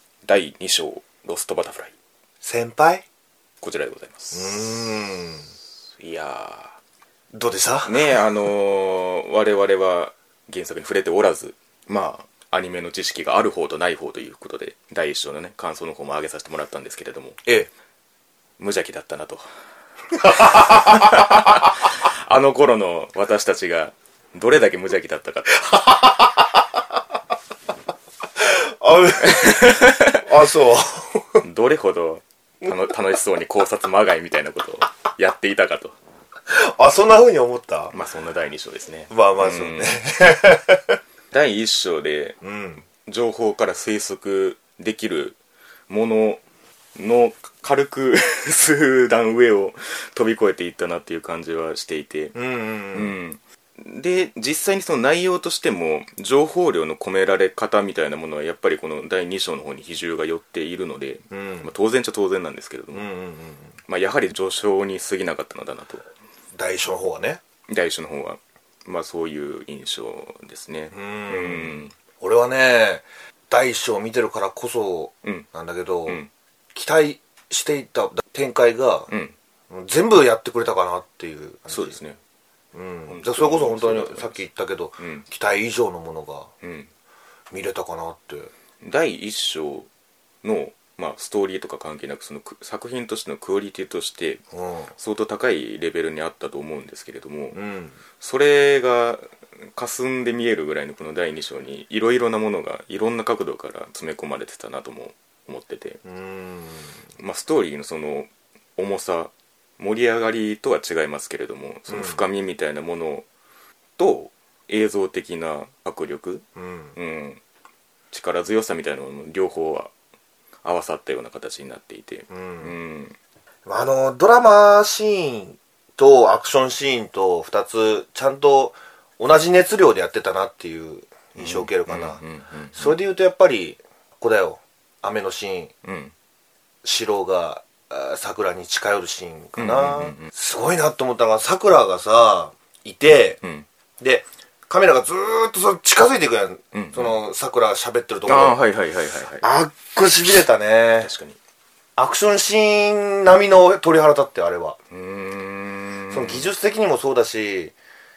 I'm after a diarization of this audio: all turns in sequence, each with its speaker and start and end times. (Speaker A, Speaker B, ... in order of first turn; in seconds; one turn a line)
Speaker A: 0.3-1.9
Speaker B: 2.4-3.0
Speaker A: 3.6-4.8
Speaker B: 4.3-5.5
Speaker A: 6.0-6.8
Speaker B: 7.3-8.2
Speaker A: 7.8-17.4
Speaker A: 18.6-19.4
Speaker B: 20.2-21.5
Speaker A: 20.2-25.7
Speaker B: 25.7-26.6
Speaker B: 28.4-31.4
Speaker A: 29.2-30.2
Speaker A: 31.4-36.0
Speaker B: 36.5-38.0
Speaker A: 37.9-40.0
Speaker B: 39.1-41.0
Speaker A: 41.3-42.4
Speaker B: 42.4-42.8
Speaker A: 42.9-45.4
Speaker A: 45.9-46.4
Speaker A: 47.0-52.4
Speaker B: 52.4-53.2
Speaker A: 52.9-63.0
Speaker B: 61.3-61.7
Speaker B: 62.9-63.8
Speaker A: 63.9-66.1
Speaker B: 66.5-67.4
Speaker A: 67.7-71.9
Speaker B: 70.9-76.2
Speaker B: 76.7-79.1
Speaker A: 79.1-79.3
Speaker B: 79.7-82.0
Speaker A: 81.7-82.2
Speaker B: 82.7-86.5
Speaker A: 83.1-84.4
Speaker A: 85.0-85.2
Speaker A: 86.6-86.9
Speaker B: 87.5-88.5
Speaker A: 88.8-89.9
Speaker A: 90.4-94.4
Speaker B: 94.5-94.9
Speaker A: 95.0-97.6
Speaker B: 97.5-98.0
Speaker A: 98.2-106.0
Speaker B: 106.0-107.0
Speaker A: 107.2-113.3
Speaker B: 111.9-112.2
Speaker A: 114.0-117.4
Speaker B: 116.6-117.0
Speaker A: 118.1-119.9
Speaker A: 120.6-123.2
Speaker B: 122.3-122.7
Speaker B: 123.7-132.2
Speaker A: 131.4-133.0
Speaker B: 132.7-135.7
Speaker A: 135.8-136.1
Speaker B: 136.8-143.4
Speaker A: 139.6-140.3
Speaker B: 144.0-148.6
Speaker A: 146.7-147.2
Speaker A: 148.3-149.5
Speaker B: 149.4-151.1
Speaker A: 151.0-151.4
Speaker B: 152.0-154.8
Speaker A: 154.9-156.5
Speaker B: 156.1-157.8